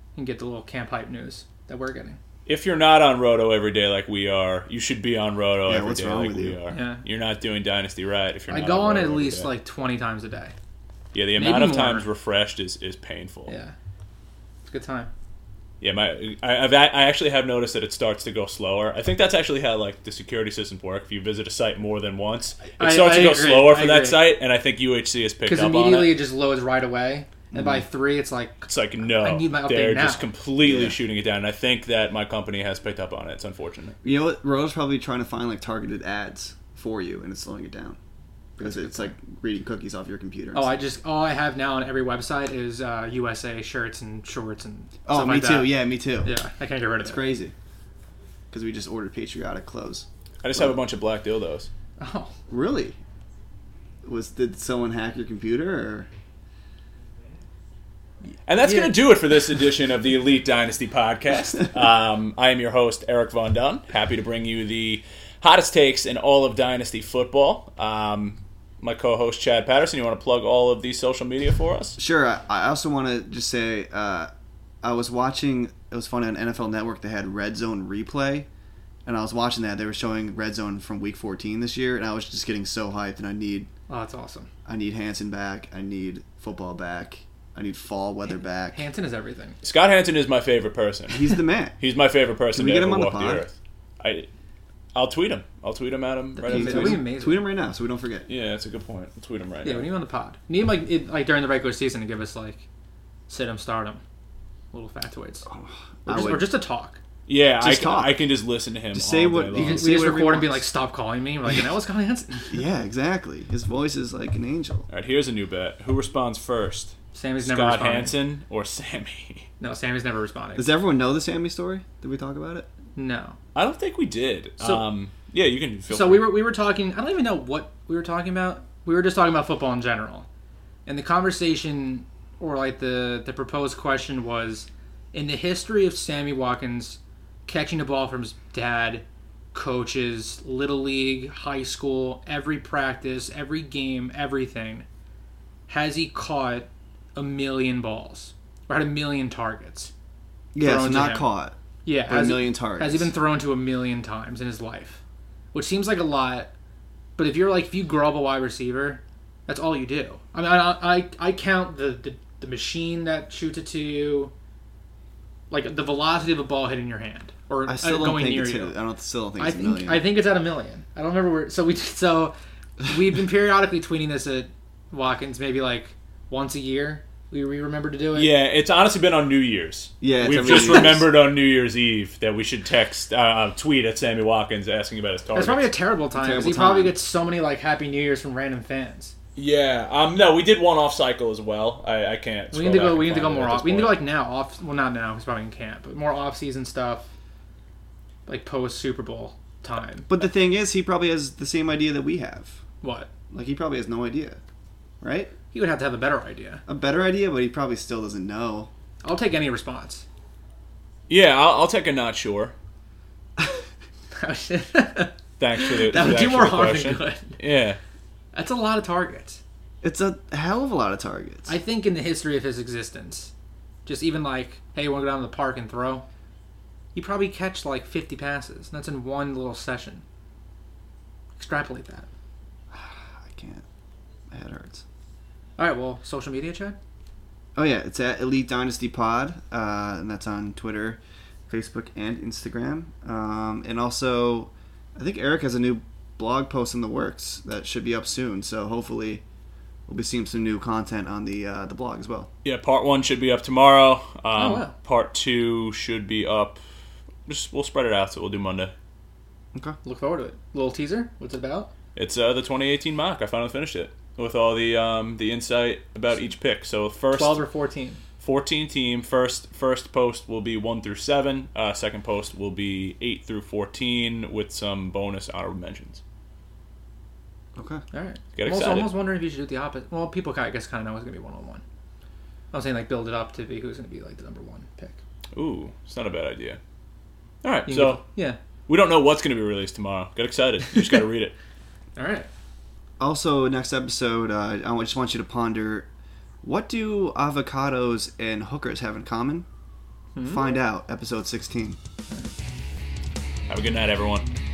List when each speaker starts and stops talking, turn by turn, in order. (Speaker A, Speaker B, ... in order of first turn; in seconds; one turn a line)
Speaker A: 0.1-2.2
Speaker B: 2.5-9.5
Speaker C: 5.7-6.6
Speaker A: 6.7-7.0
Speaker A: 8.5-10.5
Speaker B: 11.1-13.5
Speaker A: 11.4-12.1
Speaker A: 13.5-13.7
Speaker A: 14.6-15.1
Speaker B: 15.8-26.1
Speaker A: 22.7-24.3
Speaker A: 25.4-30.2
Speaker C: 27.5-27.8
Speaker B: 28.7-34.0
Speaker C: 30.6-31.0
Speaker C: 34.0-38.0
Speaker C: 38.6-40.7
Speaker A: 38.6-39.1
Speaker A: 40.5-47.2
Speaker C: 45.0-46.3
Speaker C: 47.0-47.5
Speaker C: 48.5-50.7
Speaker B: 50.4-51.7
Speaker A: 52.0-52.3
Speaker C: 52.5-53.0
Speaker C: 54.0-56.1
Speaker B: 58.5-72.0
Speaker A: 58.6-59.0
Speaker C: 72.0-74.3
Speaker C: 74.8-78.5
Speaker C: 79.0-83.7
Speaker A: 83.9-84.5
Speaker C: 84.7-88.8
Speaker A: 88.7-89.6
Speaker B: 89.6-94.3
Speaker C: 91.1-91.8
Speaker C: 92.5-93.5
Speaker B: 94.9-97.0
Speaker A: 96.3-97.5
Speaker C: 96.4-98.3
Speaker B: 98.3-99.9
Speaker A: 99.6-102.7
Speaker A: 103.3-104.0
Speaker A: 104.7-105.5
Speaker C: 105.5-106.5
Speaker A: 106.1-107.0
Speaker B: 107.3-109.8
Speaker C: 107.6-108.2
Speaker C: 108.9-110.7
Speaker A: 109.5-112.6
Speaker C: 112.5-114.9
Speaker B: 114.9-119.5
Speaker A: 117.1-118.1
Speaker A: 119.6-120.7
Speaker C: 120.5-122.7
Speaker A: 123.0-123.4
Speaker B: 123.5-126.3
Speaker A: 124.6-124.8
Speaker A: 125.9-130.3
Speaker A: 130.8-144.8
Speaker A: 145.7-149.9
Speaker C: 150.5-153.1
Speaker A: 150.6-151.3
Speaker A: 151.8-155.0
Speaker A: 155.5-156.5
Speaker A: 157.2-164.3
Speaker A: 165.5-168.7
Speaker C: 167.7-170.1
Speaker A: 169.4-178.3
Speaker B: 178.1-185.7
Speaker C: 180.0-181.1
Speaker A: 180.4-181.0
Speaker A: 185.3-189.1
Speaker C: 186.1-187.0
Speaker B: 189.3-194.0
Speaker A: 192.5-197.1
Speaker A: 198.3-200.1
Speaker C: 200.1-202.6
Speaker A: 202.8-203.1
Speaker C: 203.3-204.4
Speaker C: 205.0-205.3
Speaker A: 205.5-206.6
Speaker C: 206.7-208.7
Speaker A: 209.0-210.0
Speaker B: 211.1-212.5
Speaker A: 214.1-217.4
Speaker B: 215.4-217.8
Speaker A: 218.3-219.4
Speaker C: 219.8-221.5
Speaker A: 221.5-223.3
Speaker A: 223.8-226.1
Speaker A: 226.9-230.0
Speaker A: 231.4-232.1
Speaker C: 232.7-233.6
Speaker C: 234.3-234.8
Speaker A: 235.6-236.8
Speaker C: 237.5-249.2
Speaker C: 249.9-252.3
Speaker B: 252.4-256.6
Speaker A: 254.3-254.7
Speaker B: 257.2-258.7
Speaker A: 259.8-261.7
Speaker B: 261.9-267.4
Speaker A: 267.1-268.0
Speaker B: 268.2-276.0
Speaker C: 277.5-277.8
Speaker A: 277.9-281.6
Speaker B: 278.3-278.9
Speaker A: 282.5-285.0
Speaker B: 285.3-286.6
Speaker B: 287.4-288.0
Speaker A: 287.7-288.4
Speaker B: 288.7-291.3
Speaker A: 291.9-292.3
Speaker C: 293.0-295.9
Speaker C: 296.4-299.4
Speaker A: 300.1-300.6
Speaker C: 300.2-301.8
Speaker B: 303.5-304.3